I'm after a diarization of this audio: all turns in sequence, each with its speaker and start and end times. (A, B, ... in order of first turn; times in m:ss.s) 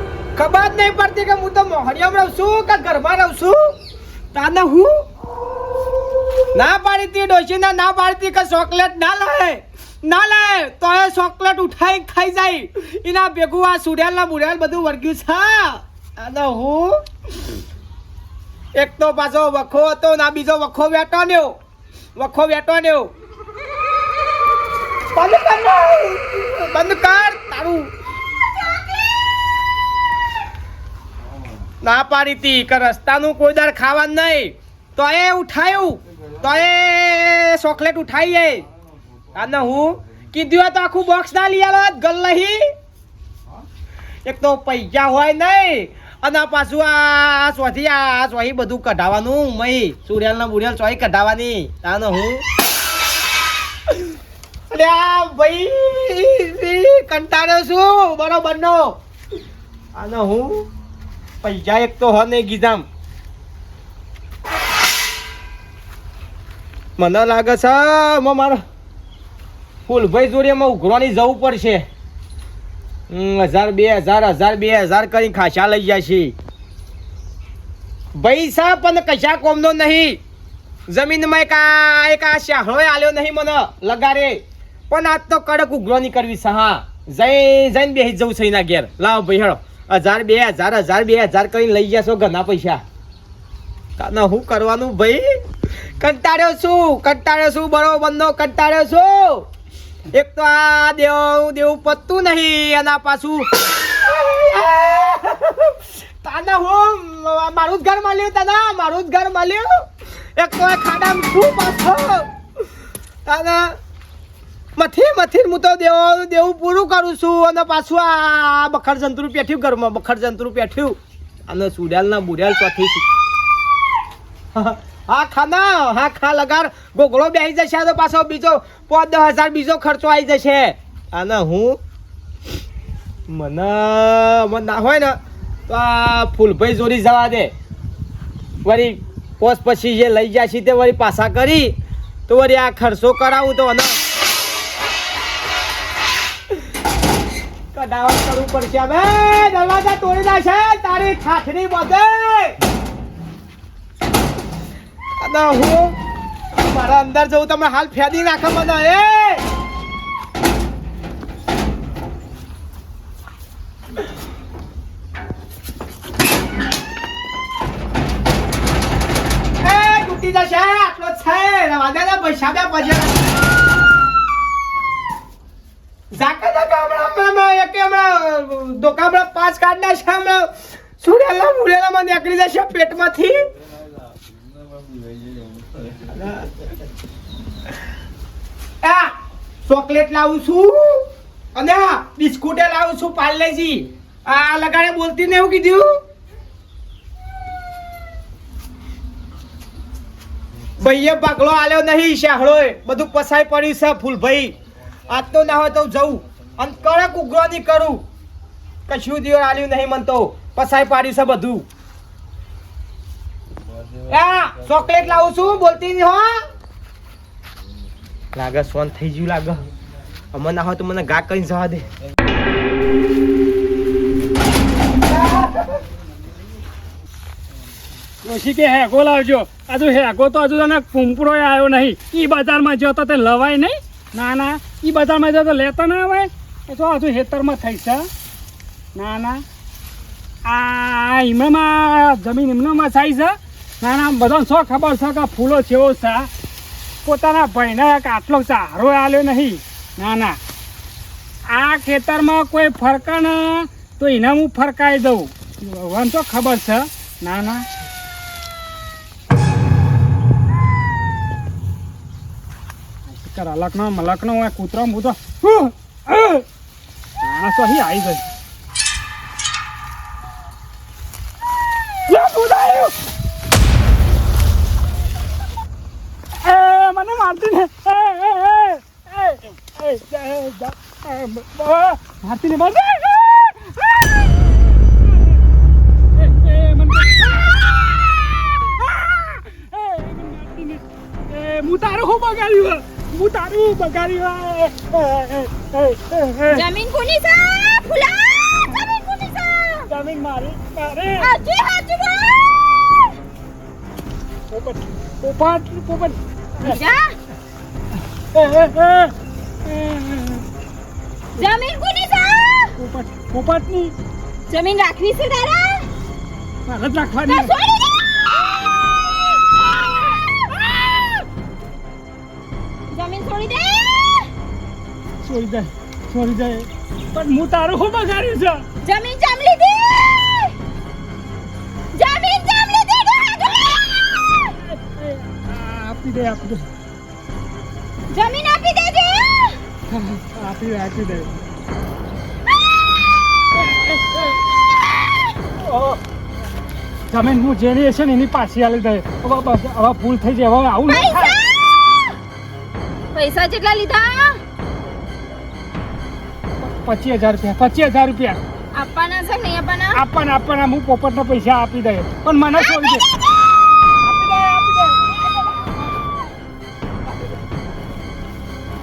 0:00.3-0:03.8 A
0:04.3-0:05.0 A
0:06.5-0:17.0 A
0:18.8-0:21.6 A
0:22.2-0:23.1 A
0:25.1-0:27.9 A
0:31.8-0:38.6 A
0:39.3-0:42.7 A
0:44.3-0:52.4 A
0:54.7-0:59.0 A
1:00.0-1:00.7 A
1:01.4-1:02.8 A
1:07.0-1:08.6 A
1:09.9-1:11.8 A
1:13.1-1:16.3 A
1:18.2-1:20.2 A
1:20.9-1:32.8 A
1:34.0-1:35.4 A
1:36.0-1:39.5 A
1:40.1-1:49.8 A
1:50.4-1:52.3 A
1:53.2-1:53.8 A
1:54.8-2:01.0 A
2:01.5-2:03.1 A
2:04.5-2:11.8 A
2:13.3-2:15.2 A
2:15.7-2:17.5 A
2:18.6-2:21.7 A
2:22.3-2:24.0 A
2:27.7-2:32.6 A
2:35.2-2:36.0 A
2:36.6-2:39.4 A
2:49.6-2:53.2 A
2:56.1-3:03.4 A
3:06.0-3:06.6 A
3:08.8-3:09.1 A
3:09.7-3:16.0 A
3:20.8-3:24.5 A
3:25.1-3:28.0 A
3:28.9-3:31.7 A
3:34.1-3:36.4 A
3:38.3-3:39.6 A
3:40.3-3:41.8 A
3:45.2-3:45.8 A
3:48.2-3:58.1 B
3:58.9-3:59.4 B
4:00.4-4:06.3 B
4:07.0-4:10.4 B
4:11.5-4:17.6 B
4:23.1-4:26.4 B
4:27.2-4:28.2 B
4:32.1-4:33.0 B
4:36.4-4:45.4 B
4:46.2-4:56.7 B
4:56.5-4:59.9 C
4:59.9-5:01.3 B
5:01.2-5:02.5 C
5:04.5-5:06.8 B
5:06.6-5:07.1 C
5:08.3-5:09.1 B
5:09.6-5:10.4 B
5:11.4-5:12.8 C
5:12.8-5:13.9 B
5:14.5-5:15.9 C
5:16.7-5:17.5 B
5:17.2-5:18.8 C
5:19.5-5:20.6 C
5:22.9-5:24.3 C
5:25.2-5:28.6 B
5:28.8-5:30.5 C
5:31.9-5:34.5 C
5:34.6-5:36.7 B
5:38.1-5:39.6 C
5:39.9-5:41.3 B
5:43.6-5:44.2 B
5:47.1-5:51.4 B
5:50.9-5:51.8 C
5:53.1-5:54.4 C
5:56.6-5:58.4 B
5:58.7-6:00.0 C
5:59.9-6:03.1 B
6:02.6-6:03.1 C
6:04.0-6:05.7 B